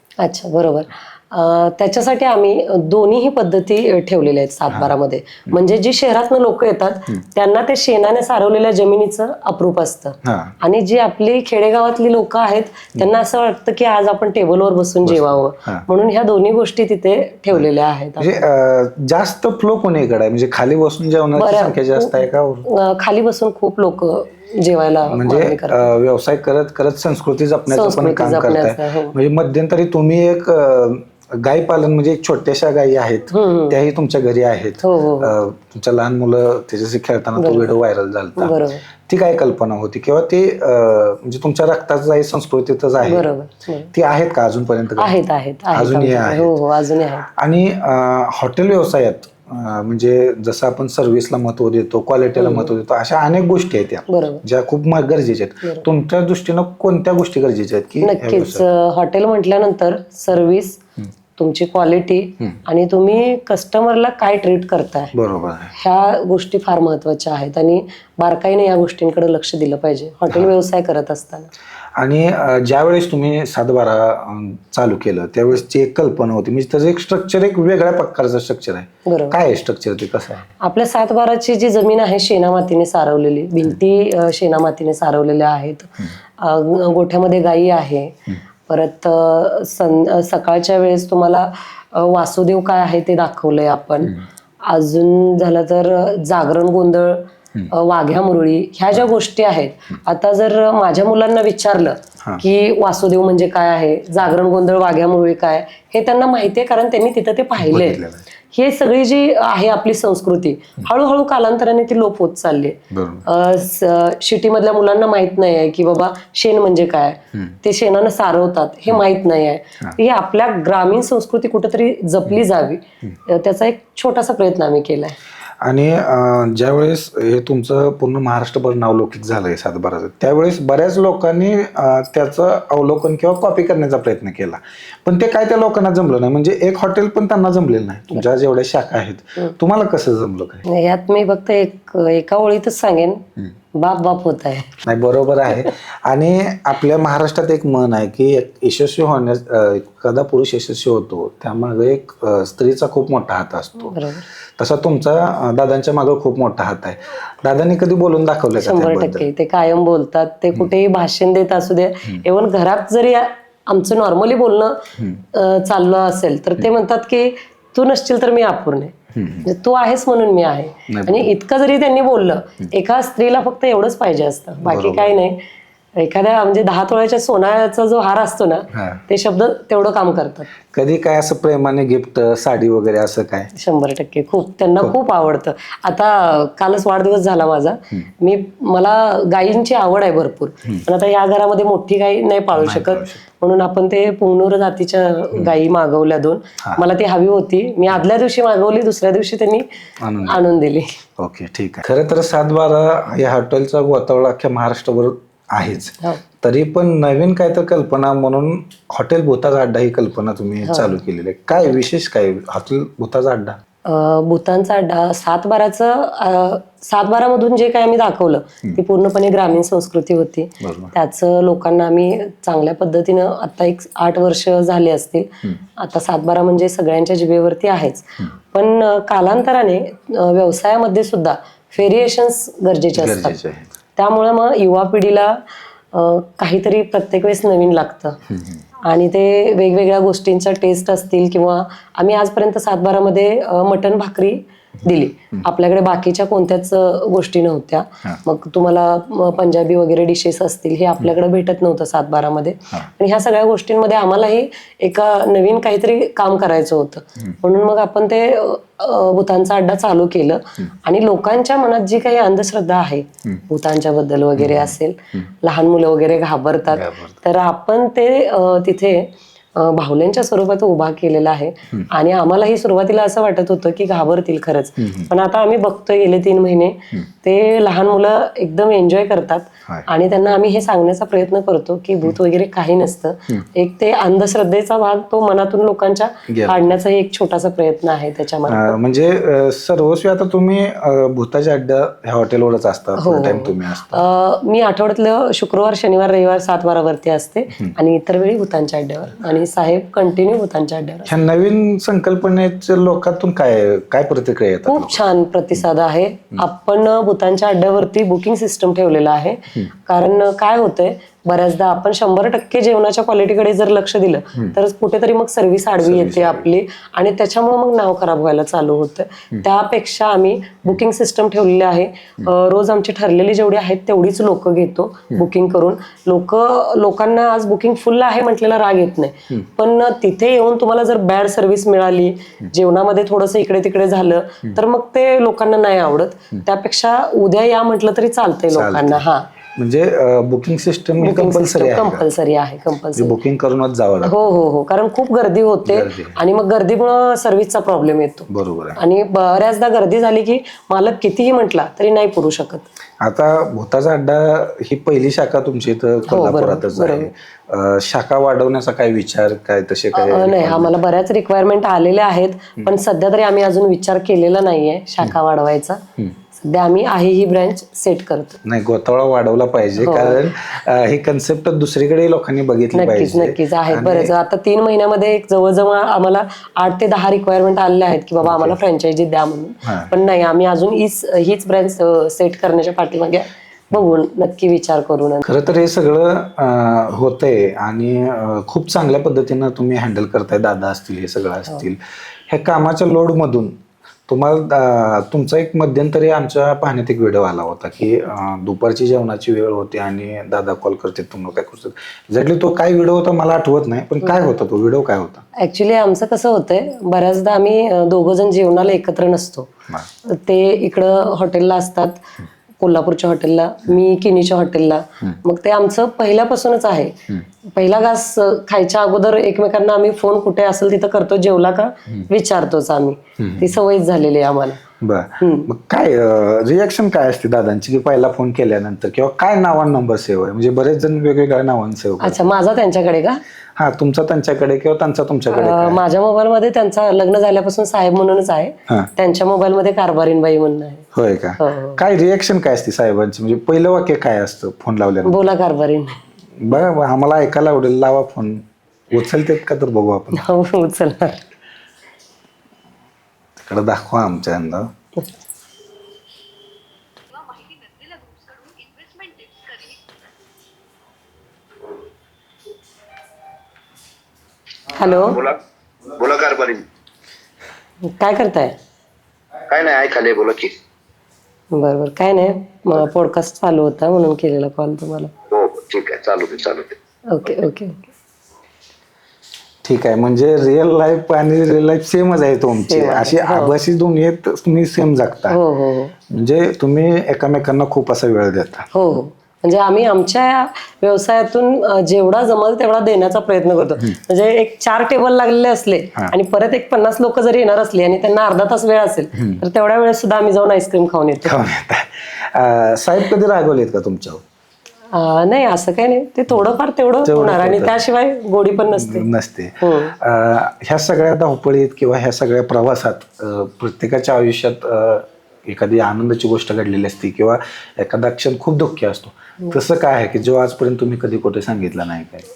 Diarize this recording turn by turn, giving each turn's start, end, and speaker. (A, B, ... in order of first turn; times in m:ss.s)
0:00.2-0:18.5 A
0:10.2-0:10.5 B
0:15.0-0:15.8 B
0:18.2-0:22.7 B
0:21.4-0:25.9 A
0:25.0-0:43.3 B
0:27.7-0:29.2 A
0:33.3-0:33.8 A
0:34.8-0:35.4 A
0:37.4-0:37.7 A
0:38.4-0:38.8 A
0:43.0-0:43.9 A
0:43.9-0:45.2 B
0:45.0-0:47.3 A
0:45.7-0:46.6 B
0:47.2-0:58.6 B
0:52.4-0:52.7 A
0:54.1-0:54.4 A
0:58.0-1:00.8 A
1:01.4-1:05.1 A
1:05.1-1:05.7 B
1:05.7-1:11.5 A
1:12.0-1:20.5 B
1:19.0-1:19.4 A
1:20.6-2:05.2 A
1:47.6-1:48.2 B
1:52.9-1:53.3 B
2:05.6-2:20.6 B
2:20.6-2:24.8 A
2:24.8-2:34.0 B
2:33.8-2:34.2 A
2:34.6-2:39.2 B
2:38.6-2:55.4 A
2:49.1-2:49.5 B
2:50.9-2:51.3 B
2:54.6-2:55.2 B
2:56.0-3:00.5 A
2:58.7-2:59.0 B
3:00.7-3:03.5 B
3:03.5-3:19.7 A
3:12.6-3:13.2 B
3:20.0-3:20.4 B
3:20.2-3:21.0 A
3:21.2-3:33.6 B
3:30.7-3:31.0 A
3:33.8-3:53.4 A
3:40.6-3:40.9 B
3:53.0-3:53.7 B
3:54.0-3:55.4 A
3:55.9-3:58.2 A
3:58.3-3:58.6 B
3:58.8-4:48.8 A
4:24.4-4:24.7 B
4:26.7-4:27.2 B
4:34.8-4:35.1 B
4:46.3-4:46.7 B
4:48.5-4:54.0 B
4:53.0-5:01.1 A
5:01.1-5:05.1 B
5:04.7-5:39.3 A
5:15.8-5:16.5 B
5:38.5-5:39.0 B
5:39.6-5:42.1 B
5:41.0-5:43.2 A
5:42.9-5:44.2 B
5:44.0-5:52.7 A
5:45.7-5:46.2 B
5:48.3-5:48.8 B
5:53.0-6:00.8 B
5:56.1-5:57.1 A
5:59.9-6:08.4 A
6:08.4-6:14.1 B
6:09.8-6:10.3 A
6:12.7-6:25.3 A
6:18.2-6:18.6 B
6:19.6-6:19.9 B
6:25.2-6:45.2 B
6:45.4-6:49.5 A
6:50.0-6:52.0 A
6:52.6-6:57.0 A
6:57.5-7:04.6 A
7:03.2-7:03.5 B
7:04.8-7:12.3 B
7:05.2-7:05.5 A
7:12.0-7:13.2 A
7:13.6-7:15.8 B
7:15.3-7:21.8 A
7:20.9-7:25.2 B
7:25.0-7:26.0 A
7:26.4-7:30.2 B
7:30.1-7:31.2 A
7:33.4-7:34.7 B
7:44.8-7:45.2 A
7:44.8-7:46.6 C
7:47.8-7:48.6 A
7:49.5-7:50.5 C
7:51.5-7:55.1 A
7:55.3-7:56.8 C
7:57.1-7:57.9 A
7:59.6-8:05.4 B
8:02.6-8:03.5 A
8:05.3-8:05.9 A
8:06.1-8:08.7 B
8:08.7-8:21.4 A
8:21.2-8:24.2 B
8:24.9-8:29.1 A
8:27.0-8:27.8 B
8:28.7-8:42.3 B
8:29.6-8:30.0 A